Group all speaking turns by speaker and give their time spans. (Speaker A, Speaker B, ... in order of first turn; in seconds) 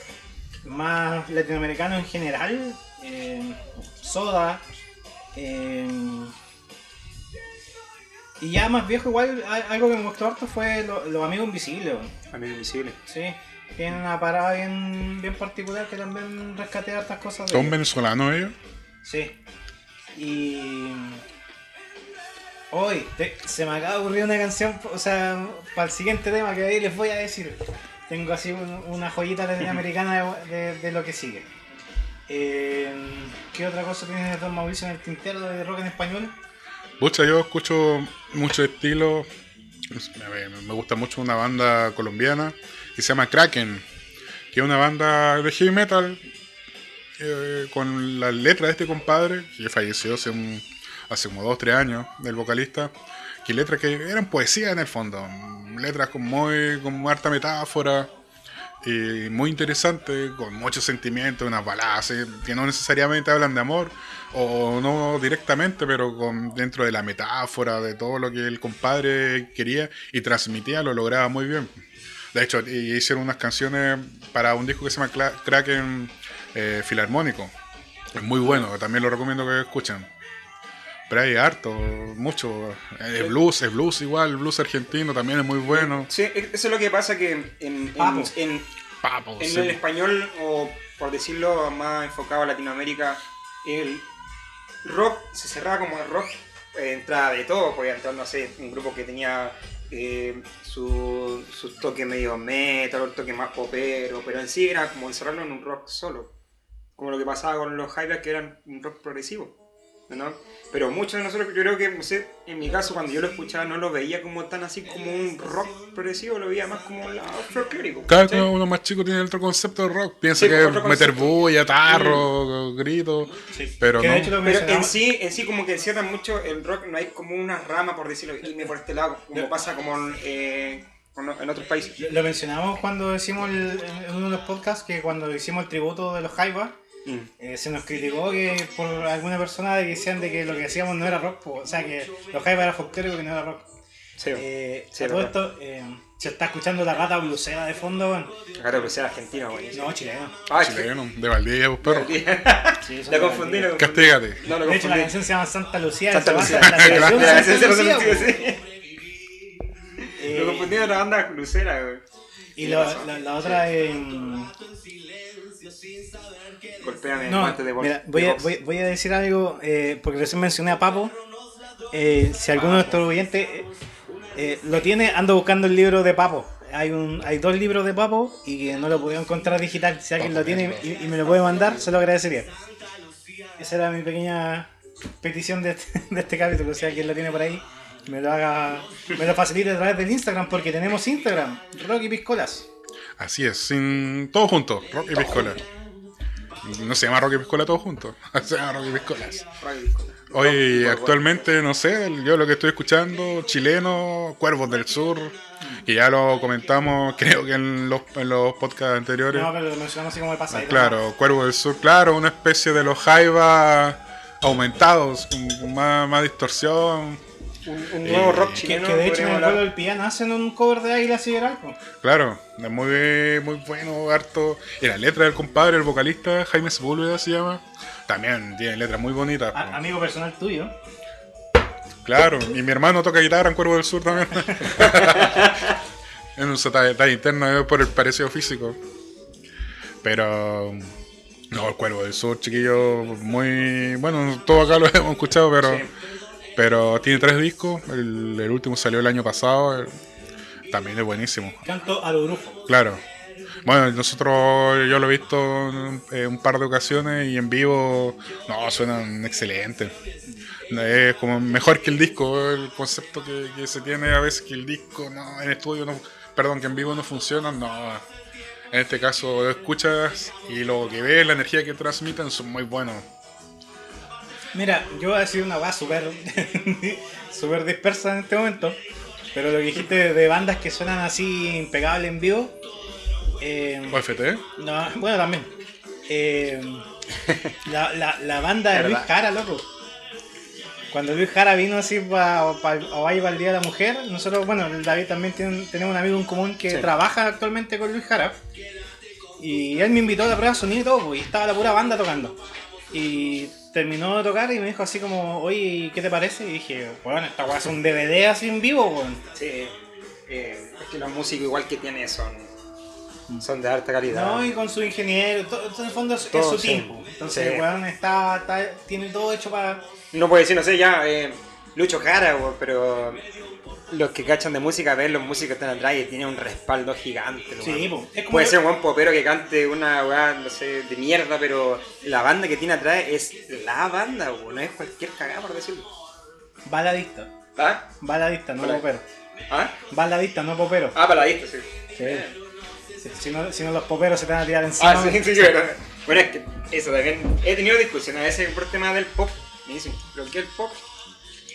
Speaker A: 0.6-4.6, 5.3-6.3, 8.4-12.1, 13.1-17.7, 19.0-19.4, 20.1-21.2, 22.7-31.5, 32.3-36.3, 88.0-88.3, 123.5-125.0, 132.0-136.8, 137.4-143.7, 144.3-148.4, 149.7-150.4, 152.8-153.7, 154.5-158.4, 160.2-160.8, 162.6-164.5, 167.2-171.2, 171.9-173.7, 174.3-182.5, 183.6-192.7, 209.3-211.0, 218.6-221.8, 229.5-230.7, 251.6-252.7, 274.5-278.8, 279.3-282.6, 283.4-284.0, 284.6-285.5, 286.1-286.9, 287.6-289.7, 290.9-298.4, 299.4-302.4, 302.9-309.2, 314.1-319.9, 327.6-328.6, 336.6-337.3, 338.0-339.1, 339.9-341.0, 342.0-342.3, 343.0-345.5
Speaker B: 12.3-13.0, 85.7-88.7, 89.4-94.0, 94.8-106.3, 107.0-109.5, 110.1-118.5, 120.3-122.2, 124.4-132.0, 137.0-137.3, 144.2-145.3, 148.6-150.9, 151.8-155.2, 156.1-158.6, 160.0-162.0, 162.6-163.6, 166.8-168.6, 172.5-173.1, 199.5-201.4, 217.6-219.7, 234.8-235.7, 245.6-245.9, 288.7-289.1, 309.3-309.8, 310.3-312.5, 313.4-314.5, 316.3-317.7, 320.1-323.2, 323.9-335.9, 337.6-337.9, 339.5-339.7, 340.9-342.4, 344.8-350.8
Speaker C: 17.5-18.5, 37.0-39.3, 39.9-43.8, 44.5-46.2, 47.2-58.1, 58.8-71.7, 72.3-77.5, 78.1-80.1, 81.1-86.1, 89.0-89.8, 118.1-124.4, 150.5-152.2, 153.7-154.4, 156.5-157.4, 180.2-180.9, 193.2-195.6, 196.6-199.4, 200.3-209.5, 210.5-217.2, 218.0-218.6, 222.0-229.8, 232.0-235.6, 236.3-238.8, 240.0-240.9, 241.5-245.9, 246.6-249.9, 250.7-251.6, 252.7-253.0, 253.6-259.9, 260.7-268.0, 268.7-273.1, 283.9-284.4